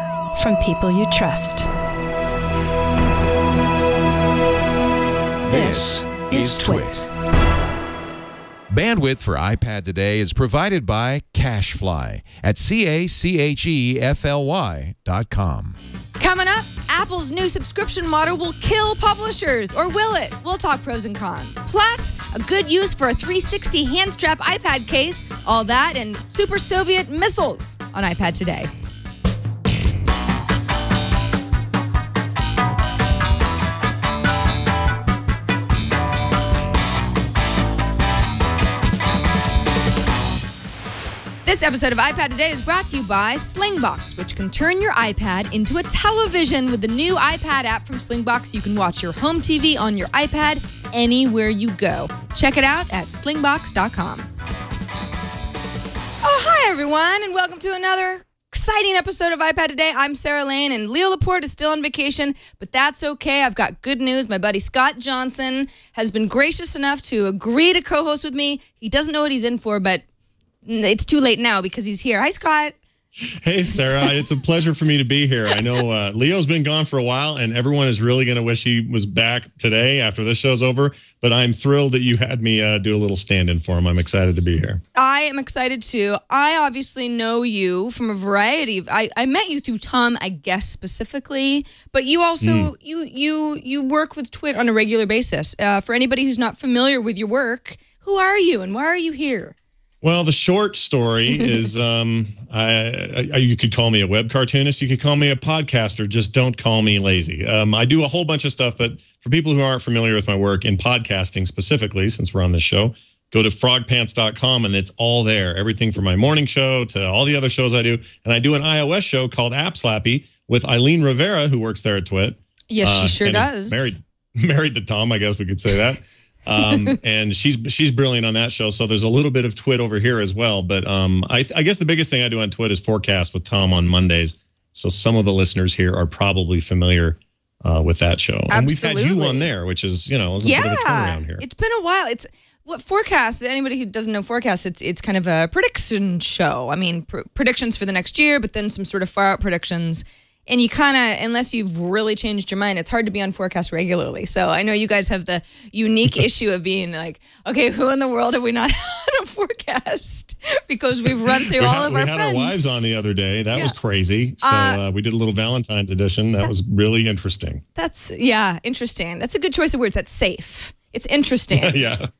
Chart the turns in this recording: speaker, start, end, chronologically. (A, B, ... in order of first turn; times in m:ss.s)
0:00.4-0:01.7 A
0:05.4-0:07.0 B
0:05.5-0:07.0 A
0:08.7-0:15.8 B
0:16.2-0:28.7 C
0:41.4-0:54.3 C
0:56.2-1:10.0 C
1:10.6-1:12.8 C
1:13.2-1:24.8 D
1:24.9-1:39.6 C
1:32.4-1:32.7 D
1:40.0-2:21.4 D
2:02.7-2:03.9 C
2:06.6-2:06.9 C
2:18.5-2:19.5 C
2:20.4-2:42.6 C
2:41.3-2:47.6 D
2:44.4-2:44.8 C
2:47.8-2:51.8 C
2:51.5-2:52.1 D